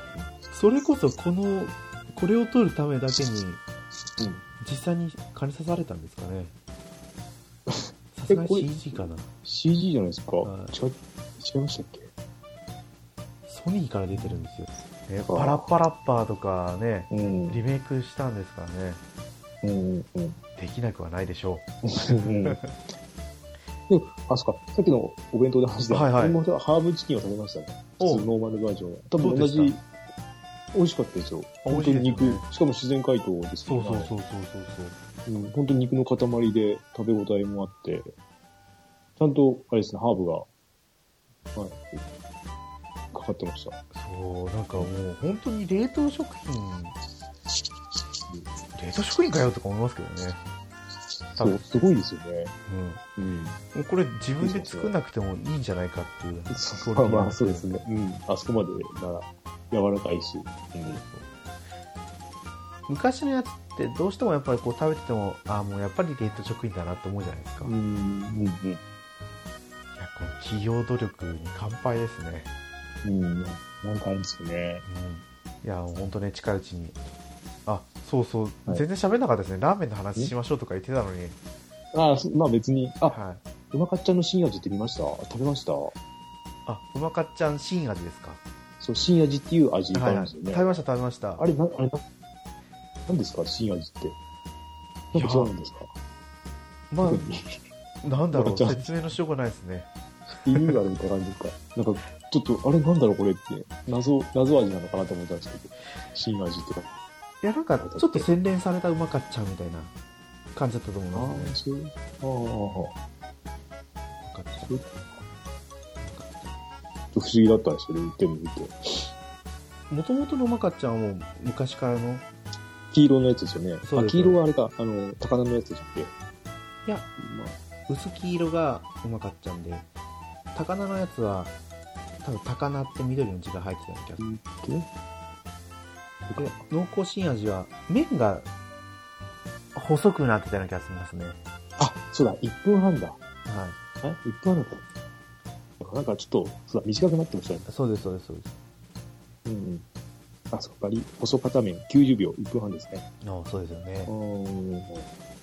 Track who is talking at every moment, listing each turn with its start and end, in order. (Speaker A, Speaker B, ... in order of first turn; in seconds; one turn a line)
Speaker A: 0.5-3.6
Speaker B: 4.2-4.4
Speaker A: 4.6-6.5
Speaker B: 7.7-8.7
Speaker A: 8.1-9.3
Speaker B: 9.4-12.1
Speaker A: 10.4-10.7
Speaker A: 13.5-19.0
Speaker B: 14.1-14.4
Speaker B: 15.2-15.7
Speaker B: 17.1-17.6
Speaker B: 19.6-20.4
Speaker A: 20.6-21.6
Speaker B: 21.9-22.6
Speaker A: 22.2-22.7
Speaker B: 23.9-29.8
Speaker A: 25.9-26.4
Speaker A: 28.0-28.3
Speaker A: 29.2-29.8
Speaker B: 30.7-34.1
Speaker A: 31.7-32.4
Speaker A: 33.6-35.0
Speaker B: 35.3-38.1
Speaker B: 39.2-40.5
Speaker B: 41.5-42.0
Speaker B: 43.1-43.8
Speaker A: 43.9-47.0
Speaker A: 48.7-50.4
Speaker B: 51.4-52.5
Speaker A: 51.4-51.9
Speaker A: 52.7-53.0
Speaker B: 53.2-53.6
Speaker A: 53.7-57.8
Speaker B: 54.4-54.9
Speaker B: 56.5-61.0
Speaker A: 60.8-61.3
Speaker A: 62.9-67.7
Speaker B: 67.6-68.8
Speaker A: 70.0-72.5
Speaker B: 73.0-74.8
Speaker A: 74.8-77.0
Speaker A: 77.7-81.3
Speaker B: 81.9-83.2
Speaker A: 83.1-83.4
Speaker B: 83.7-85.9
Speaker A: 86.7-88.4
Speaker B: 88.8-90.8
Speaker A: 89.9-91.5
Speaker B: 91.4-92.0
Speaker B: 93.1-94.2
Speaker A: 95.1-95.5
Speaker B: 95.1-95.9
Speaker A: 96.9-97.2
Speaker B: 97.0-97.6
Speaker A: 98.0-99.9
Speaker B: 98.3-98.8
Speaker B: 100.4-106.9
Speaker A: 100.5-100.8
Speaker A: 107.4-109.9
Speaker B: 107.8-108.3
Speaker A: 110.5-111.5
Speaker B: 111.1-112.9
Speaker A: 114.2-114.7
Speaker B: 114.6-115.1
Speaker A: 116.0-116.5
Speaker B: 117.1-119.1
Speaker A: 119.9-122.2
Speaker B: 122.9-126.1
Speaker A: 123.8-124.4
Speaker A: 126.8-127.2
Speaker B: 127.2-127.5
Speaker A: 127.9-129.9
Speaker A: 130.5-131.5
Speaker A: 132.2-134.2
Speaker B: 134.2-134.9
Speaker B: 136.2-136.6
Speaker A: 136.4-138.5
Speaker A: 139.7-141.4
Speaker B: 141.8-143.2
Speaker A: 143.4-143.8
Speaker B: 144.0-144.8
Speaker B: 145.8-147.7
Speaker A: 147.7-148.5
Speaker B: 149.4-149.8
Speaker B: 150.5-153.1
Speaker A: 153.2-154.1
Speaker B: 154.1-155.1